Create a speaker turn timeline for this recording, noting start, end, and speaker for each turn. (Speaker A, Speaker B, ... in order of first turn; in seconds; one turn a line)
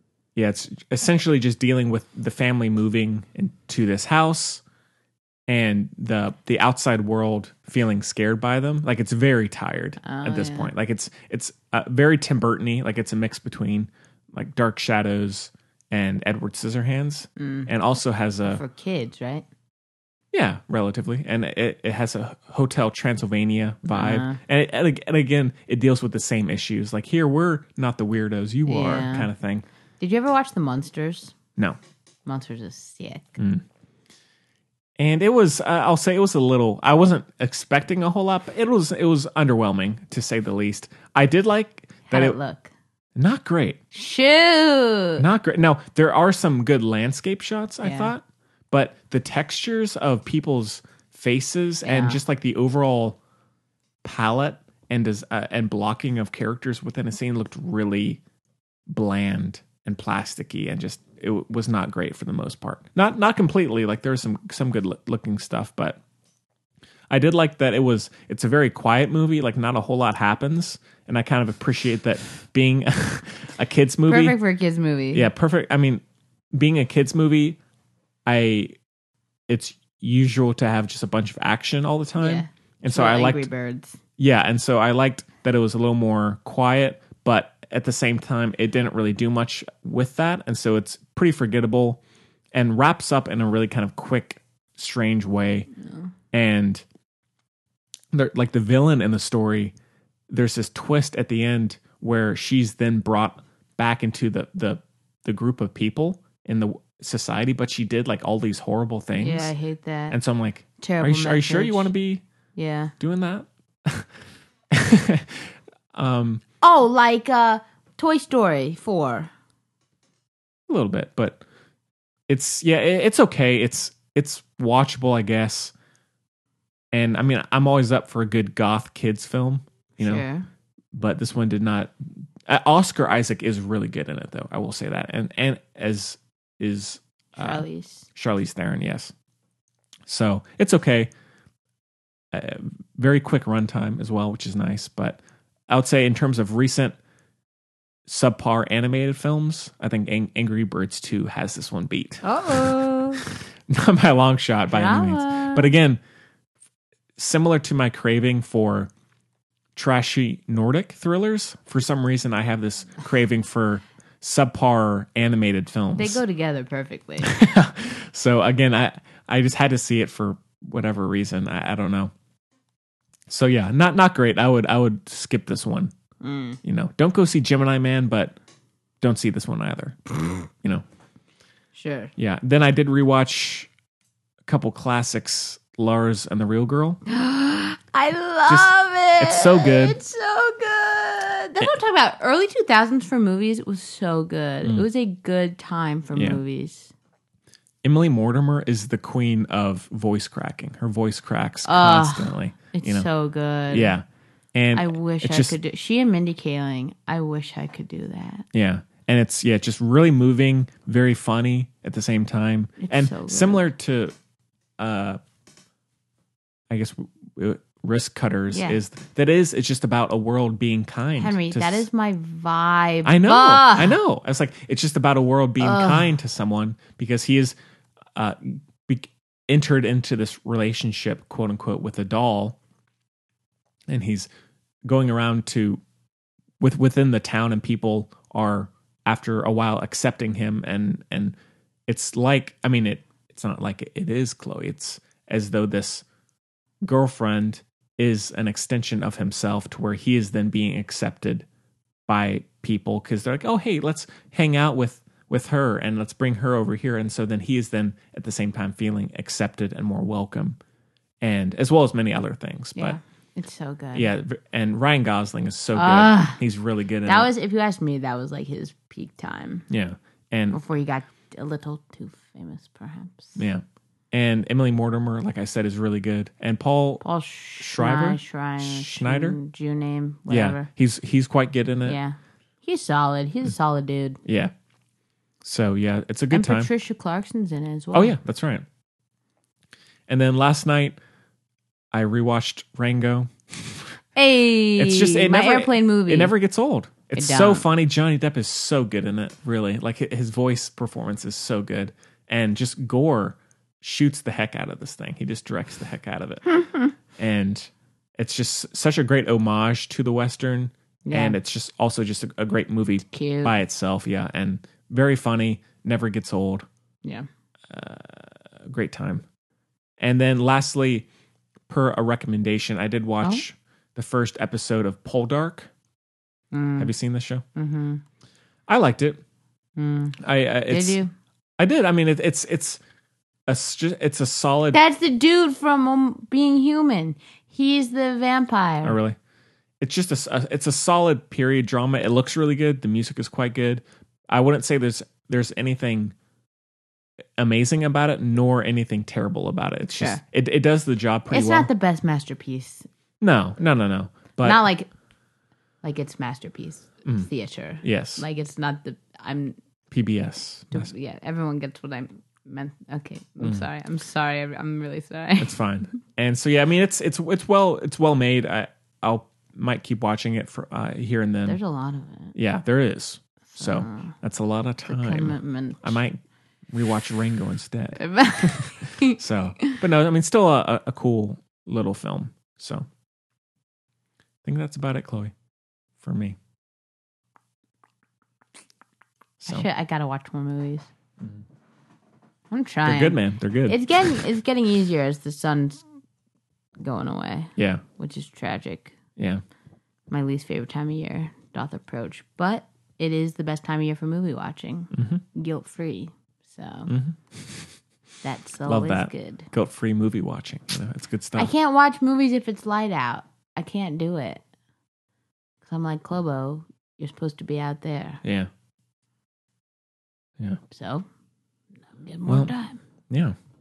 Speaker A: 0.3-4.6
Speaker A: 5.5-18.6
Speaker B: 10.0-10.7
Speaker B: 17.4-17.7
Speaker B: 18.4-19.4
Speaker A: 20.3-29.7
Speaker B: 23.9-24.4
Speaker B: 28.7-29.3
Speaker B: 30.0-31.3
Speaker B: 32.3-33.4
Speaker A: 33.4-33.6
Speaker A: 35.0-42.4
Speaker B: 42.1-42.7
Speaker A: 43.2-43.8
Speaker B: 43.9-45.2
Speaker A: 45.2-53.2
Speaker B: 47.8-48.1
Speaker B: 51.8-52.2
Speaker A: 54.0-58.2
Speaker A: 58.9-66.0
Speaker A: 67.1-74.4
Speaker B: 74.1-75.3
Speaker A: 75.1-76.0
Speaker A: 76.5-77.6
Speaker A: 78.3-78.8
Speaker A: 79.5-83.5
Speaker B: 82.2-84.0
Speaker A: 84.2-92.0
Speaker A: 92.5-95.7
Speaker B: 95.8-96.1
Speaker A: 96.3-96.8
Speaker A: 98.1-99.7
Speaker A: 100.3-109.5
Speaker B: 109.2-110.2
Speaker A: 110.1-112.2
Speaker B: 110.8-111.9
Speaker B: 112.5-112.9
Speaker A: 113.0-114.1
Speaker A: 114.7-116.4
Speaker B: 116.6-119.3
Speaker A: 120.7-121.4
Speaker A: 122.3-125.7
Speaker A: 126.9-130.2
Speaker B: 130.0-130.5
Speaker A: 130.9-139.1
Speaker B: 137.4-138.1
Speaker A: 140.1-141.1
Speaker A: 142.3-147.0
Speaker A: 148.1-156.0
Speaker B: 152.2-153.3
Speaker B: 154.7-155.7
Speaker A: 157.2-158.9
Speaker A: 159.8-166.2
Speaker B: 165.9-167.4
Speaker A: 167.2-172.1
Speaker A: 173.3-175.9
Speaker B: 176.2-176.6
Speaker A: 176.6-178.4
Speaker A: 179.0-180.8
Speaker B: 181.7-182.1
Speaker A: 182.2-183.7
Speaker A: 184.5-187.0
Speaker B: 187.1-196.9
Speaker A: 188.5-190.0
Speaker A: 196.1-196.4
Speaker A: 197.8-203.1
Speaker B: 201.7-203.9
Speaker A: 203.7-205.6
Speaker B: 204.8-208.5
Speaker A: 208.5-214.2
Speaker B: 212.8-213.7
Speaker A: 214.8-215.2
Speaker A: 216.7-221.9
Speaker B: 218.5-218.8
Speaker B: 221.2-224.0
Speaker A: 223.1-227.6
Speaker B: 225.6-226.1
Speaker A: 228.2-232.6
Speaker A: 233.9-234.3
Speaker A: 234.8-235.8
Speaker A: 236.6-241.4
Speaker A: 241.9-246.0
Speaker A: 246.8-251.5
Speaker A: 252.1-260.6
Speaker A: 261.2-263.0
Speaker B: 262.8-264.1
Speaker A: 263.9-267.3
Speaker B: 265.8-266.4
Speaker B: 267.1-269.7
Speaker A: 269.7-270.6
Speaker B: 270.5-273.4
Speaker A: 273.4-277.0
Speaker B: 277.0-280.7
Speaker A: 277.6-279.4
Speaker A: 280.3-282.0
Speaker B: 281.9-284.2
Speaker A: 284.2-284.5
Speaker A: 285.4-286.7
Speaker B: 286.3-288.2
Speaker A: 287.9-288.7
Speaker A: 290.1-291.0
Speaker A: 291.9-293.9
Speaker B: 294.2-296.4
Speaker A: 294.8-306.6
Speaker B: 297.1-297.7
Speaker A: 307.2-316.7
Speaker B: 311.1-311.4
Speaker B: 313.1-313.6
Speaker A: 317.7-319.2
Speaker A: 320.0-321.1
Speaker A: 321.7-325.7
Speaker B: 326.5-326.9
Speaker A: 326.8-327.4
Speaker B: 327.6-328.0
Speaker A: 328.7-329.2
Speaker B: 329.8-330.2
Speaker A: 330.2-331.0
Speaker B: 330.7-331.1
Speaker A: 331.6-332.8
Speaker A: 333.5-334.8
Speaker B: 334.7-339.0
Speaker A: 338.8-339.2
Speaker A: 339.8-346.1
Speaker A: 347.4-351.7
Speaker B: 349.9-350.2
Speaker B: 351.3-352.9
Speaker A: 353.2-354.6
Speaker B: 354.4-354.9
Speaker B: 355.8-359.6
Speaker A: 357.8-358.2
Speaker A: 359.9-360.9
Speaker B: 360.7-365.6
Speaker A: 365.4-371.6
Speaker B: 371.4-372.4
Speaker A: 372.4-376.2
Speaker B: 373.5-374.1
Speaker B: 374.9-376.0
Speaker A: 376.7-382.9
Speaker B: 378.0-379.8
Speaker A: 384.4-385.3
Speaker A: 386.0-386.4
Speaker B: 389.4-390.9
Speaker B: 392.5-395.8
Speaker A: 392.8-394.1
Speaker B: 396.8-398.9
Speaker A: 397.6-397.8
Speaker A: 399.2-399.4
Speaker B: 400.1-406.9
Speaker A: 404.9-405.2
Speaker A: 406.9-407.7
Speaker B: 408.2-409.5
Speaker A: 408.7-411.5
Speaker B: 411.4-414.4
Speaker B: 415.6-418.2
Speaker A: 418.2-418.5
Speaker B: 420.7-421.1
Speaker B: 422.0-422.8
Speaker A: 422.3-422.5
Speaker A: 423.1-423.4